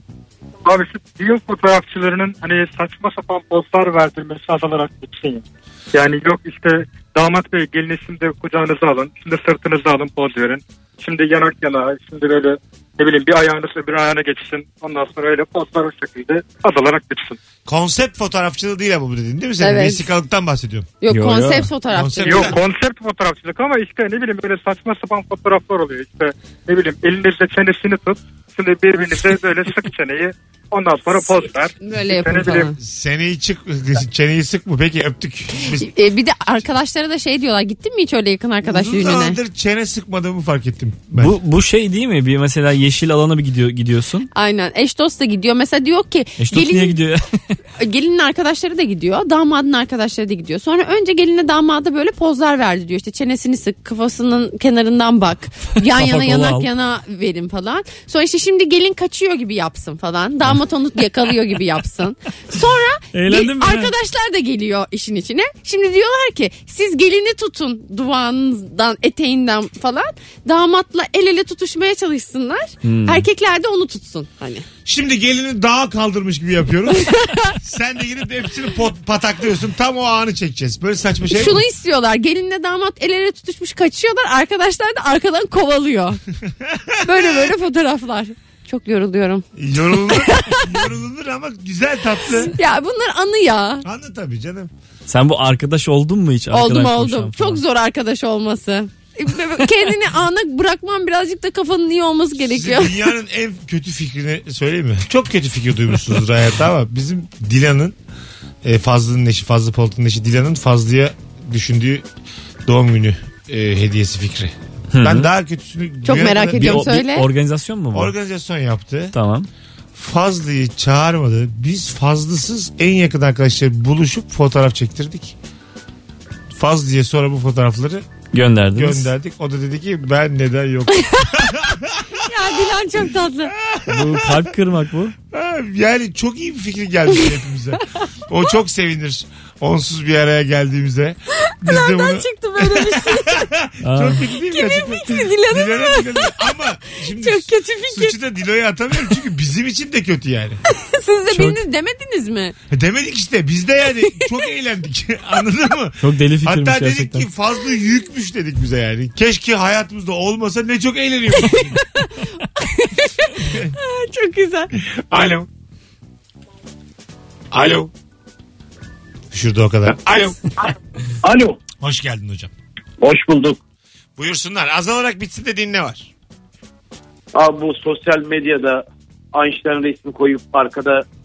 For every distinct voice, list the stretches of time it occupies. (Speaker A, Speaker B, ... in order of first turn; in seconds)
Speaker A: 0.6-17.4, 22.2-32.7
Speaker B: 17.6-20.9, 21.9-22.6, 32.8-35.9, 38.6-41.3, 74.8-81.6, 86.4-87.5, 89.5-92.5, 93.8-94.7, 102.4-108.0, 108.6-112.0, 112.7-116.9, 117.9-119.1, 119.9-125.3, 126.5-128.0, 128.7-132.7, 133.6-134.5, 135.3-150.6, 152.7-161.8, 163.4-163.7, 164.8-165.5, 167.5-167.9, 169.3-170.4, 171.8-172.5, 174.2-176.1
Speaker C: 19.6-20.1, 21.0-22.6, 31.8-32.8, 35.6-39.4, 44.3-47.0, 47.8-74.7, 76.9-77.5, 81.3-86.2, 87.0-90.8, 92.3-93.8, 96.5-103.0, 116.0-117.3, 130.9-131.5, 132.2-133.5, 141.4-143.5, 144.4-148.2, 150.7-152.5, 154.0-154.3, 161.3-164.7
Speaker D: 21.1-21.7, 41.2-44.3, 46.4-47.3, 55.9-56.7, 63.1-63.9, 72.8-73.2, 95.1-97.6, 114.9-115.3, 116.5-118.1, 119.1-119.5, 128.3-129.1, 133.9-135.1, 143.8-144.3, 151.3-151.6, 156.0-157.3
Speaker E: 171.2-171.6, 173.0-173.6, 177.3-181.0